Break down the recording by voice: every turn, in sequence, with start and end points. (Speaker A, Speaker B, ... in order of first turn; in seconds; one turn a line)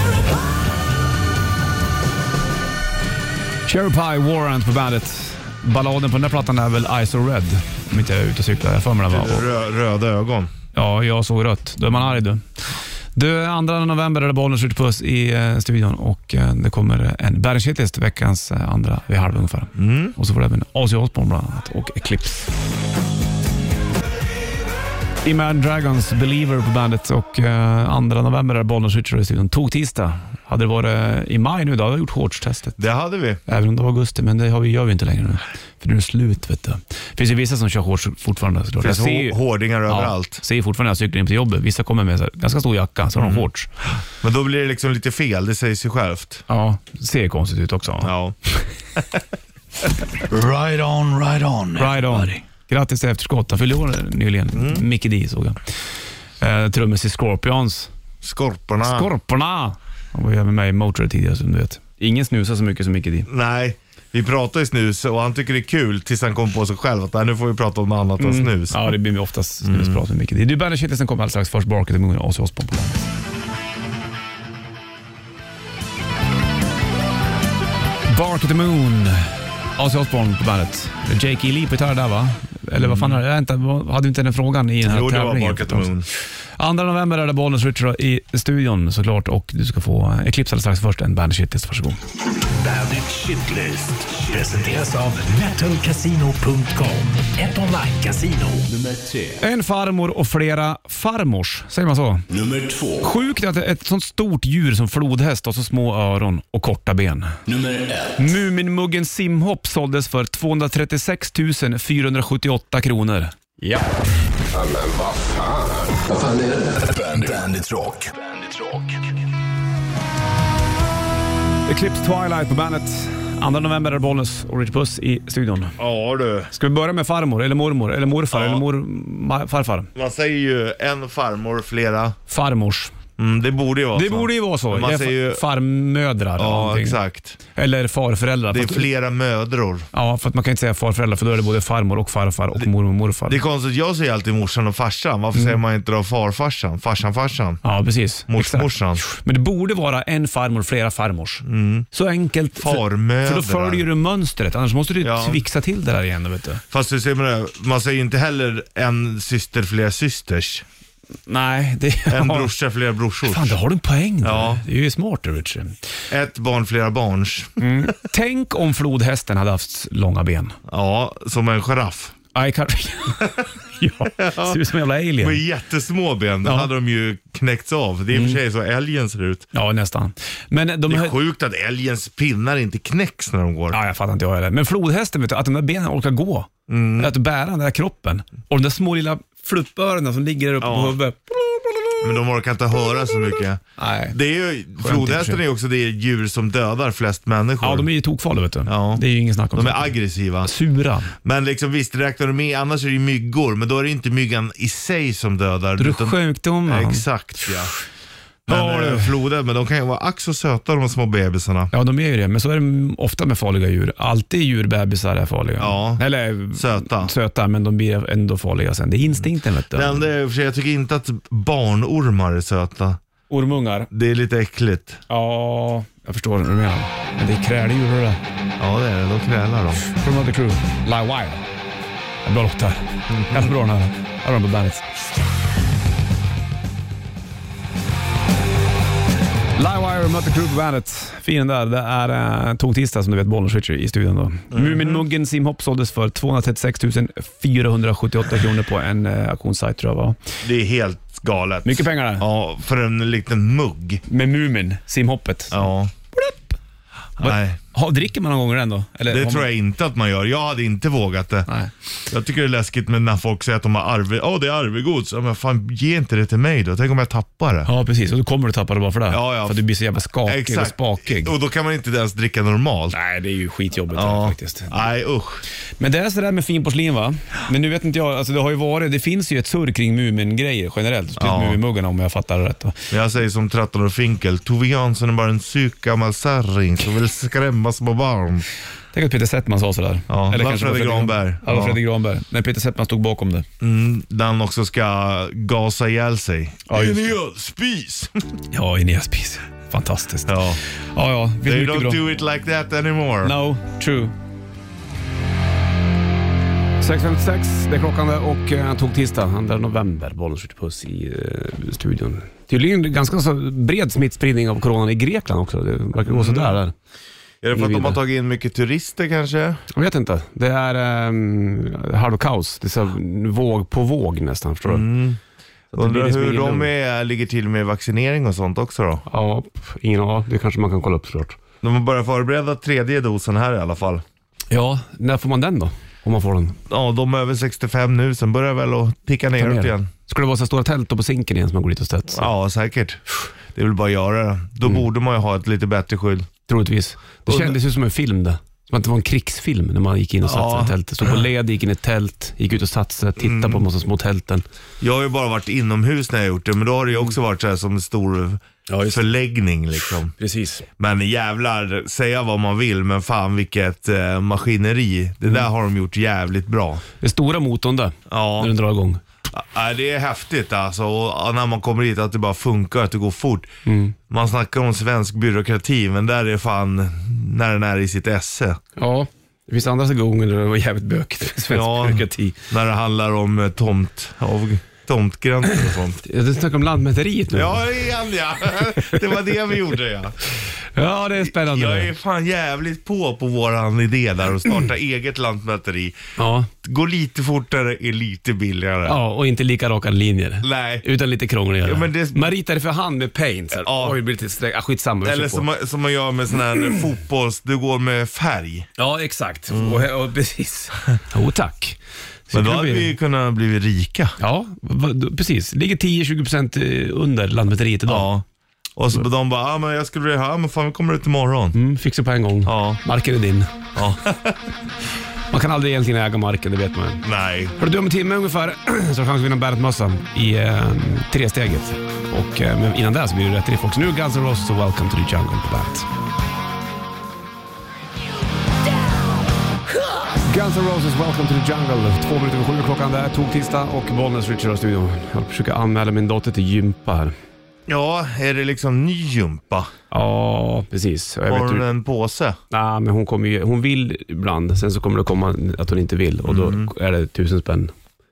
Speaker A: 3.7-9.4
Speaker B: 9.1-10.5
Speaker A: 10.7-12.4
Speaker A: 13.2-22.5
Speaker B: 19.8-20.1
Speaker A: 25.2-32.8
Speaker B: 32.8-33.4
Speaker A: 33.5-43.7
Speaker B: 38.8-40.4
Speaker B: 43.2-43.5
Speaker B: 44.2-46.5
Speaker A: 46.5-48.7
Speaker B: 48.0-48.4
Speaker B: 49.0-49.2
Speaker C: 50.2-52.4
Speaker A: 51.8-55.6
Speaker B: 54.5-54.8
Speaker A: 56.4-57.9
Speaker B: 58.2-59.1
Speaker A: 58.8-63.3
Speaker B: 63.3-68.9
Speaker A: 68.2-73.1
Speaker B: 69.7-70.0
Speaker A: 78.1-85.9
Speaker B: 82.8-83.2
Speaker B: 84.8-86.1
Speaker A: 86.6-92.0
Speaker C: 92.4-99.4
Speaker A: 99.4-102.3
Speaker C: 102.3-103.1
Speaker A: 103.0-107.4
Speaker C: 107.5-108.3
Speaker A: 108.2-113.9
Speaker C: 114.5-119.1
Speaker A: 121.7-125.8
Speaker B: 125.8-126.5
Speaker A: 126.5-129.9
Speaker B: 128.3-128.6
Speaker B: 129.9-132.2
Speaker A: 132.3-132.9
Speaker B: 133.2-135.4
Speaker A: 133.9-137.0
Speaker B: 136.4-137.4
Speaker A: 137.5-138.9
Speaker B: 138.5-139.9
Speaker A: 139.9-143.4
Speaker B: 143.3-147.6
Speaker A: 147.6-156.6
Speaker B: 148.3-149.0
Speaker B: 151.4-151.9
Speaker B: 152.6-153.9
Speaker B: 155.0-155.4
Speaker B: 156.7-160.7
Speaker A: 161.3-162.5
Speaker B: 162.1-163.6
Speaker A: 163.2-165.8
Speaker B: 164.2-164.6
Speaker B: 166.1-167.9
Speaker A: 167.6-170.6
Speaker B: 170.7-172.2
Speaker A: 172.3-175.4
Speaker B: 174.1-174.6
Speaker B: 175.2-179.5
Speaker A: 178.1-178.4
Speaker A: 179.5-181.2
Speaker B: 180.9-183.8
Speaker A: 183.7-191.9
Speaker B: 186.7-187.1
Speaker B: 190.6-191.0
Speaker B: 192.0-197.9
Speaker A: 193.8-194.2
Speaker A: 194.8-195.4
Speaker A: 197.6-201.1
Speaker B: 198.7-199.0
Speaker B: 199.5-200.5
Speaker B: 201.2-207.7
Speaker A: 205.8-207.7
Speaker A: 208.5-209.1
Speaker B: 208.5-211.7
Speaker A: 211.7-220.1
Speaker B: 215.6-217.1
Speaker B: 219.7-223.0
Speaker A: 223.3-223.9
Speaker B: 223.9-225.0
Speaker A: 225.1-228.2
Speaker B: 228.6-229.8
Speaker A: 229.9-231.4
Speaker A: 232.2-234.8
Speaker B: 233.1-233.5
Speaker A: 239.6-250.2
Speaker B: 244.5-245.0
Speaker B: 250.4-254.0
Speaker A: 251.7-252.2
Speaker A: 254.1-256.6
Speaker B: 255.5-255.9
Speaker B: 257.2-257.6
Speaker A: 257.2-259.5
Speaker B: 259.1-261.5
Speaker B: 262.1-267.7
Speaker A: 267.7-271.3
Speaker B: 269.1-269.6
Speaker B: 270.3-273.0
Speaker A: 272.9-274.8
Speaker B: 273.9-275.4
Speaker A: 275.8-282.9
Speaker B: 281.2-281.6
Speaker B: 282.9-288.5
Speaker A: 288.9-293.5
Speaker B: 290.1-291.8
Speaker B: 293.6-298.3
Speaker A: 296.7-297.1
Speaker A: 298.5-302.0
Speaker B: 300.3-300.6
Speaker B: 301.4-303.4
Speaker A: 303.2-304.1
Speaker A: 306.8-316.7
Speaker B: 316.1-316.6
Speaker B: 317.4-319.6
Speaker A: 317.5-318.0
Speaker A: 319.7-324.9
Speaker B: 324.7-325.2
Speaker A: 325.7-326.7
Speaker B: 325.7-329.0
Speaker A: 329.1-331.4
Speaker B: 331.6-334.0
Speaker A: 334.5-336.6
Speaker B: 336.7-339.9
Speaker A: 339.4-342.3
Speaker B: 342.1-346.3
Speaker A: 346.5-354.4
Speaker B: 347.3-347.6
Speaker B: 350.2-351.2
Speaker B: 353.2-353.6
Speaker B: 354.8-360.1
Speaker A: 358.7-359.0
Speaker A: 360.2-360.6
Speaker B: 360.8-366.8
Speaker A: 367.0-369.0
Speaker B: 368.1-368.5
Speaker B: 369.3-373.5
Speaker A: 373.6-373.9
Speaker B: 374.1-378.6
Speaker A: 378.8-382.4
Speaker B: 381.4-386.0
Speaker A: 386.0-387.7
Speaker B: 387.3-390.2
Speaker A: 388.8-389.1
Speaker A: 390.8-391.9
Speaker B: 391.2-395.9
Speaker A: 396.2-396.5
Speaker B: 396.6-399.0
Speaker A: 398.9-405.5
Speaker B: 400.4-400.9
Speaker B: 401.6-402.3
Speaker B: 403.6-404.0
Speaker B: 405.0-408.7
Speaker A: 408.8-412.9
Speaker B: 409.5-409.8
Speaker B: 412.3-414.2
Speaker A: 414.2-418.1
Speaker B: 417.9-418.2
Speaker B: 418.8-421.6
Speaker A: 421.5-423.6
Speaker B: 422.4-422.8
Speaker B: 423.8-424.4
Speaker A: 425.3-427.0
Speaker B: 427.0-427.6
Speaker A: 427.6-435.9
Speaker A: 439.9-447.1
Speaker B: 447.7-449.7
Speaker A: 449.9-451.7
Speaker B: 451.3-452.4
Speaker A: 452.5-457.7
Speaker B: 456.2-456.7